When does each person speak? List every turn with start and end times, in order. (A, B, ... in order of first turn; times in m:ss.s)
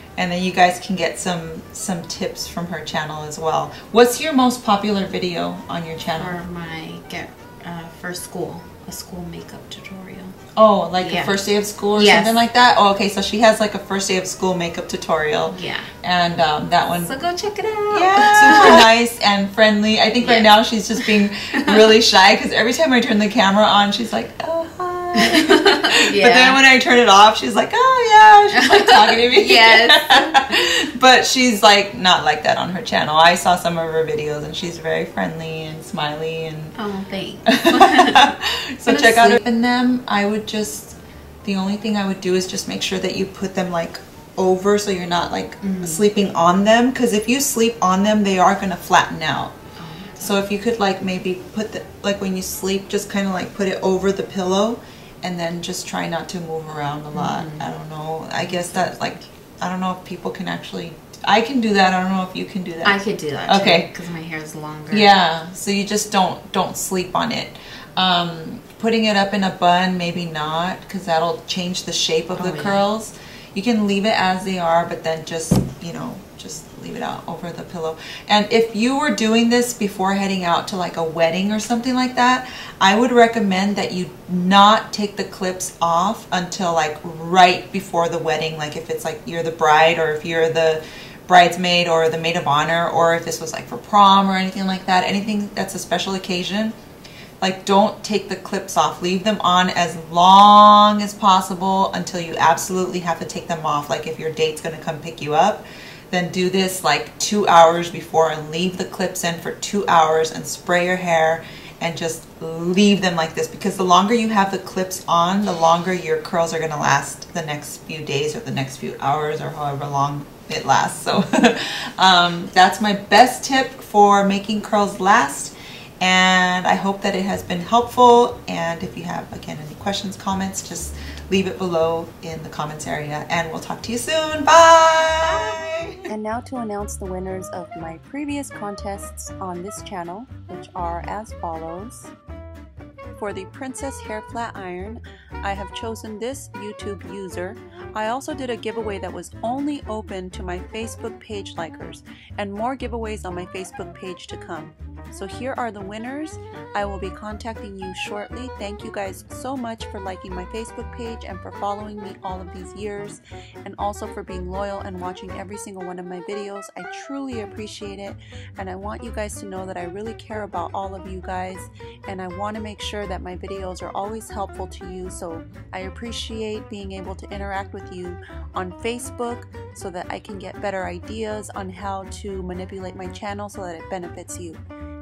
0:00.2-0:06.4 A
0:06.2-0:10.4 B
0:10.6-0:17.2 A
0:11.0-0:11.4 B
0:11.9-0:12.4 B
0:15.5-0:15.9 B
0:16.9-0:18.9 B
0:17.9-0:36.8 A
0:20.2-0:20.6 B
0:25.3-0:26.6 B
0:28.5-0:30.5 B
0:36.8-0:39.4 B
0:37.5-0:49.5 A
0:45.6-0:46.0 B
0:49.8-0:50.4 B
0:50.2-1:03.9 A
0:57.1-0:57.7 B
0:58.4-0:59.3 B
1:02.8-1:05.1 B
1:04.9-1:36.8 A
1:12.4-1:12.8 B
1:37.4-2:16.1 A
2:16.1-2:22.1 C
2:23.2-3:04.6 C